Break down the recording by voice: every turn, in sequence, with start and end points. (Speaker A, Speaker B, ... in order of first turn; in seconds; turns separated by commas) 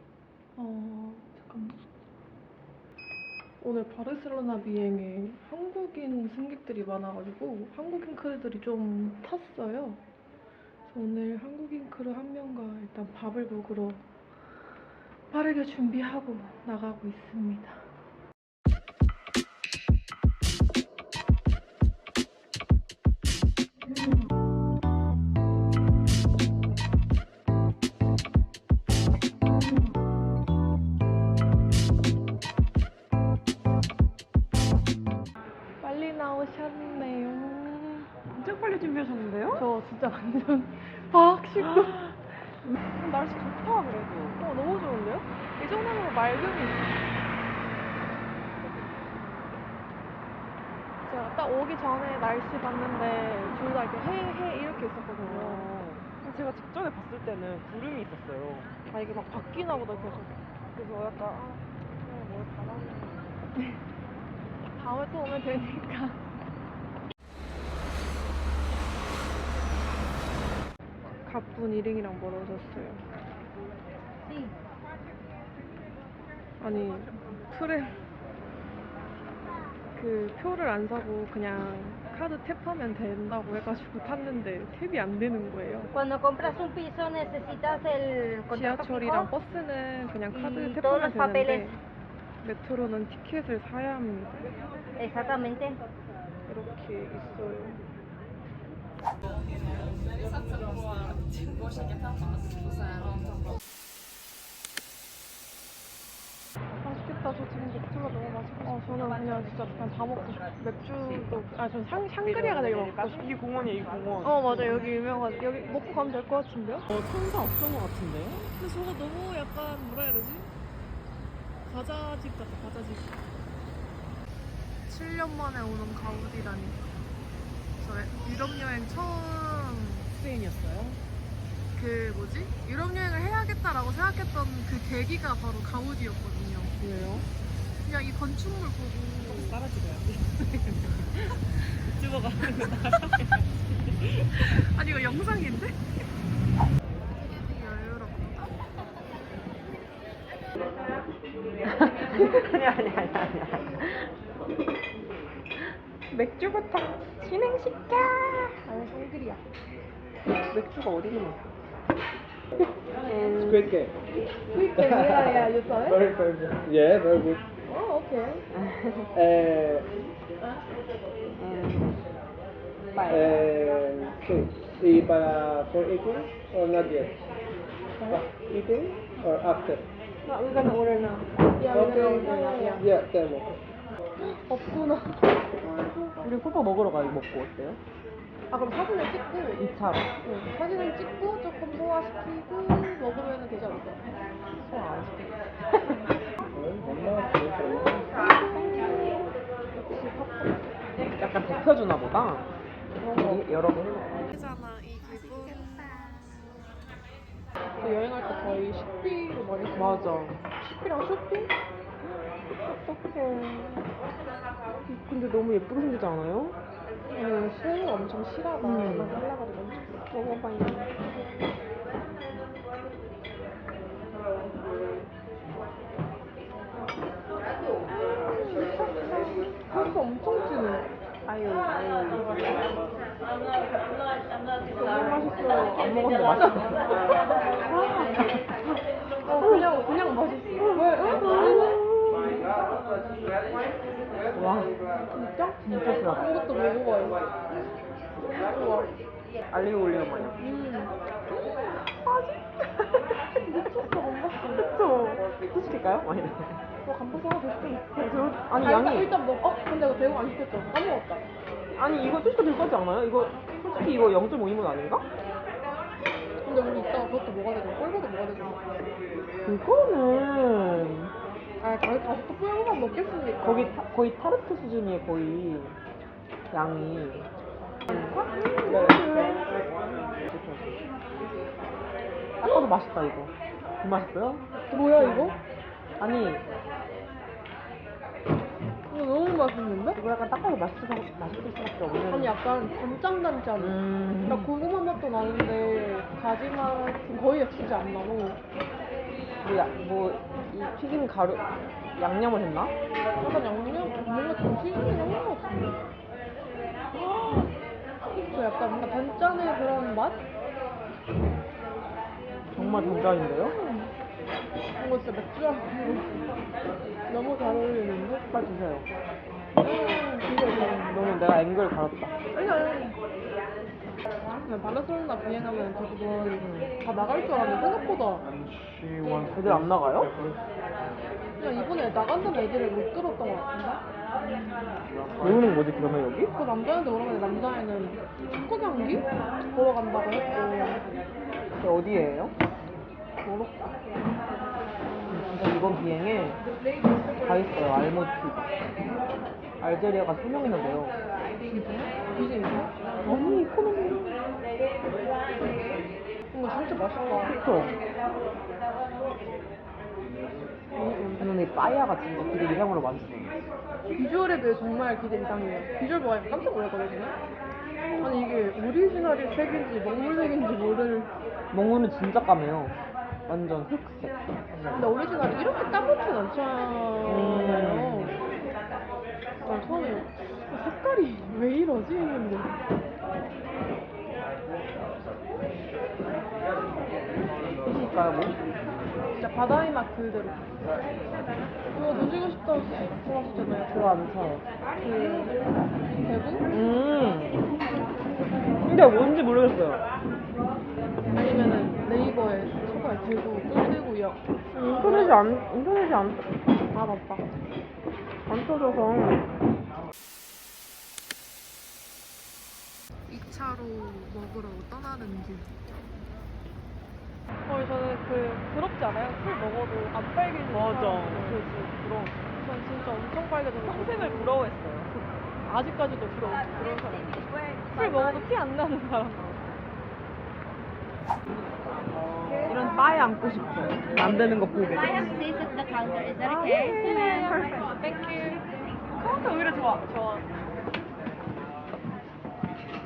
Speaker A: 0.6-1.8, Speaker A: 3.6-10.0, Speaker A: 10.9-14.0, Speaker A: 15.3-17.9, Speaker A: 35.8-38.1, Speaker B: 38.3-39.7, Speaker A: 39.5-42.1, Speaker B: 43.0-44.4, Speaker A: 44.4-47.0, Speaker A: 51.1-55.7, Speaker B: 55.2-58.7, Speaker A: 58.9-60.4, Speaker B: 60.8-63.3, Speaker A: 64.7-66.2, Speaker A: 71.2-73.0, Speaker C: 74.2-74.6, Speaker A: 76.6-78.0, Speaker A: 80.0-85.9, Speaker C: 85.9-89.3, Speaker A: 88.5-91.8, Speaker C: 90.3-91.7, Speaker A: 92.4-94.4, Speaker C: 95.0-95.8, Speaker A: 96.5-97.8, Speaker B: 106.8-108.9, Speaker A: 108.6-113.3, Speaker B: 112.2-114.9, Speaker A: 114.2-116.9, Speaker B: 116.9-118.5, Speaker A: 118.5-120.5, Speaker A: 121.7-123.2, Speaker A: 124.9-126.8, Speaker A: 127.8-130.2, Speaker B: 130.2-131.0, Speaker A: 131.8-136.8, Speaker B: 136.8-137.3, Speaker A: 137.8-139.6, Speaker B: 139.2-141.3, Speaker B: 141.8-144.6, Speaker A: 142.4-143.3, Speaker A: 144.3-145.7, Speaker A: 147.2-148.6, Speaker B: 151.7-154.1, Speaker B: 156.1-158.6, Speaker A: 158.7-159.4, Speaker B: 160.4-161.4, Speaker B: 163.1-163.8, Speaker D: 163.3-163.9, Speaker A: 164.5-166.0, Speaker D: 164.8-167.4, Speaker A: 167.7-168.4, Speaker B: 168.7-169.1, Speaker D: 169.1-169.9, Speaker B: 171.4-171.9, Speaker B: 173.0-173.4, Speaker D: 173.1-177.2, Speaker D: 178.1-179.8, Speaker B: 180.3-181.3, Speaker A: 181.6-182.9, Speaker D: 181.7-183.6, Speaker B: 181.9-182.7, Speaker A: 184.2-185.3, Speaker B: 186.2-187.8, Speaker A: 188.5-189.7, Speaker B: 189.6-190.1, Speaker A: 190.2-194.0, Speaker B: 194.6-196.0, Speaker A: 198.4-199.2, Speaker B: 198.6-199.0, Speaker A: 199.8-200.6, Speaker B: 201.2-202.5, Speaker A: 203.0-203.6, Speaker B: 203.1-204.2, Speaker A: 204.3-206.2, Speaker A: 207.8-211.5, Speaker B: 209.8-210.4, Speaker B: 212.0-213.9, Speaker B: 214.8-216.6, Speaker A: 217.1-220.0, Speaker B: 218.6-219.2, Speaker B: 220.1-220.9, Speaker A: 228.4-230.9, Speaker B: 231.3-232.7, Speaker B: 234.7-237.1, Speaker B: 237.7-238.4, Speaker A: 239.2-241.8, Speaker B: 239.4-239.8, Speaker B: 240.6-242.4, Speaker B: 244.3-244.7, Speaker A: 245.1-247.2, Speaker B: 245.6-246.3, Speaker A: 248.3-248.9, Speaker B: 249.5-250.4, Speaker A: 250.4-250.9, Speaker B: 251.3-253.2, Speaker A: 253.4-254.6, Speaker B: 254.4-256.6, Speaker A: 256.8-258.0, Speaker B: 258.0-259.2, Speaker A: 258.6-261.2, Speaker B: 261.8-265.1, Speaker A: 266.4-268.6, Speaker B: 269.4-271.1, Speaker A: 271.6-273.8, Speaker B: 273.4-275.8, Speaker B: 276.5-277.3, Speaker B: 277.9-279.6, Speaker D: 278.7-279.4, Speaker B: 280.2-280.7, Speaker B: 282.4-284.4, Speaker A: 284.7-285.4, Speaker B: 285.0-285.3, Speaker B: 286.0-286.4, Speaker A: 288.9-290.0, Speaker B: 290.0-292.4, Speaker A: 292.1-298.4, Speaker B: 293.6-294.5, Speaker B: 299.4-302.7, Speaker A: 303.2-305.8, Speaker B: 306.9-307.5, Speaker A: 308.2-310.2, Speaker B: 312.5-313.6, Speaker A: 312.6-313.9, Speaker A: 314.8-316.2, Speaker A: 317.1-318.2, Speaker B: 318.3-318.9, Speaker A: 319.6-320.7, Speaker B: 319.7-322.1, Speaker A: 322.3-323.0, Speaker A: 324.4-328.3, Speaker B: 326.4-326.7, Speaker B: 329.3-330.1, Speaker A: 331.4-333.8, Speaker B: 335.2-336.3, Speaker A: 336.4-340.8, Speaker B: 341.6-342.4, Speaker B: 343.2-343.6, Speaker B: 345.1-346.4, Speaker B: 347.2-348.5, Speaker B: 349.6-350.9, Speaker A: 351.4-353.4, Speaker B: 353.0-354.1, Speaker A: 356.3-357.4, Speaker B: 357.1-357.8, Speaker B: 360.8-363.4, Speaker A: 360.8-361.3, Speaker A: 363.9-367.2, Speaker A: 368.0-371.1, Speaker B: 371.5-372.8, Speaker B: 373.3-374.2, Speaker A: 374.7-378.2, Speaker B: 377.0-378.2, Speaker A: 379.4-382.5, Speaker B: 387.6-388.4, Speaker A: 389.2-390.4, Speaker A: 391.7-394.0, Speaker B: 393.4-394.4, Speaker A: 394.8-395.4, Speaker A: 396.0-396.5, Speaker B: 396.5-397.4, Speaker B: 398.6-399.8, Speaker A: 401.1-404.2, Speaker B: 404.5-406.3, Speaker A: 404.8-405.2, Speaker A: 406.7-407.2, Speaker B: 408.3-409.3, Speaker A: 413.1-415.5, Speaker A: 417.5-421.5, Speaker B: 420.5-422.2, Speaker A: 422.3-424.4, Speaker B: 423.6-425.1, Speaker A: 425.5-426.8, Speaker C: 426.3-428.2, Speaker A: 427.7-429.4, Speaker B: 432.4-435.2, Speaker C: 434.6-437.4, Speaker B: 436.2-437.7, Speaker A: 437.8-438.4, Speaker B: 439.0-439.8, Speaker A: 439.8-440.3